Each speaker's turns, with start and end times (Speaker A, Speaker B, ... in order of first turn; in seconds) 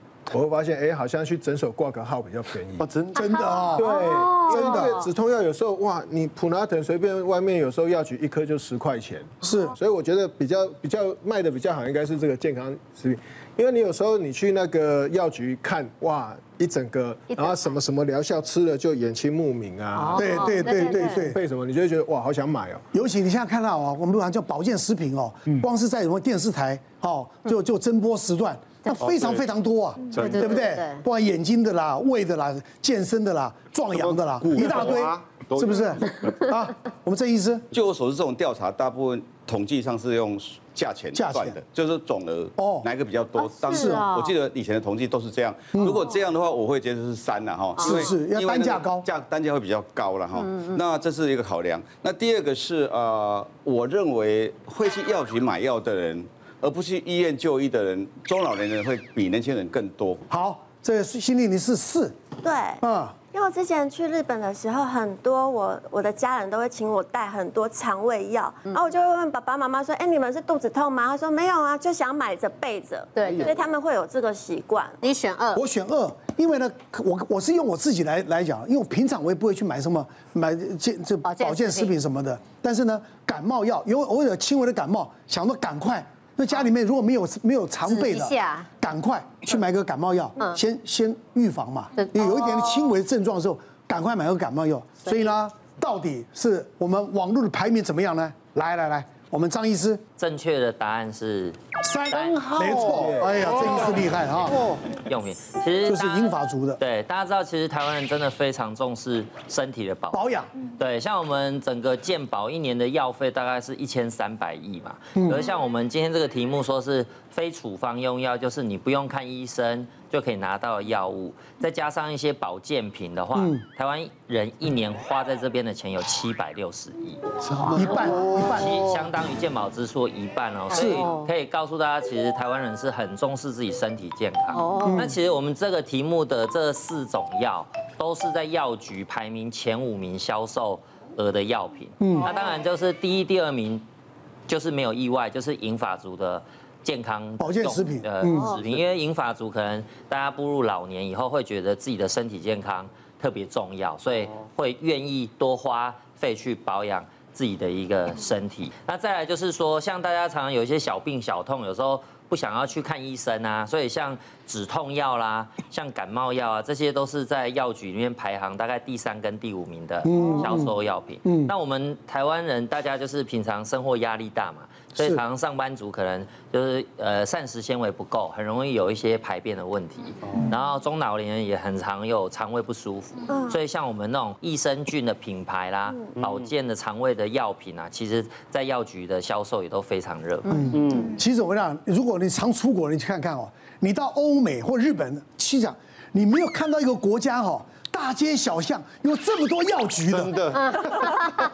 Speaker A: 0.3-2.9, 3.7-20.4, 21.2-22.9, 102.9-103.9
Speaker B: 2.8-3.6, 33.9-35.7, 102.5-103.8, 104.5-104.8, 186.2-186.5, 190.7-191.1, 200.1-201.1
Speaker C: 3.1-4.0, 4.5-4.9, 9.4-9.7, 20.2-21.4, 22.9-37.6, 41.1-41.6, 42.6-42.9, 43.7-44.0, 45.7-46.0, 47.8-49.0, 60.3-62.1, 62.8-63.1, 75.5-100.0, 101.8-104.7, 105.8-106.8, 110.1-110.5, 115.2-115.4, 123.3-123.6, 127.7-129.0, 130.7-131.0, 134.8-135.2, 142.0-142.3, 147.4-148.5, 170.0-170.7, 171.2-171.5, 174.9-175.2, 190.5-200.3
Speaker D: 3.3-5.0, 19.9-21.4, 30.2-31.0, 43.4-44.3, 47.8-48.1, 50.4-50.8, 73.2-73.5, 75.0-75.6, 81.2-81.9, 87.8-88.7, 92.0-92.3, 95.0-95.3, 130.8-131.3, 134.5-135.0, 200.5-201.4
Speaker E: 34.6-36.2, 37.7-60.2
Speaker F: 62.4-62.8, 63.3-75.0
Speaker G: 100.2-101.6, 102.1-102.4, 104.3-127.2, 127.7-143.8, 144.5-190.7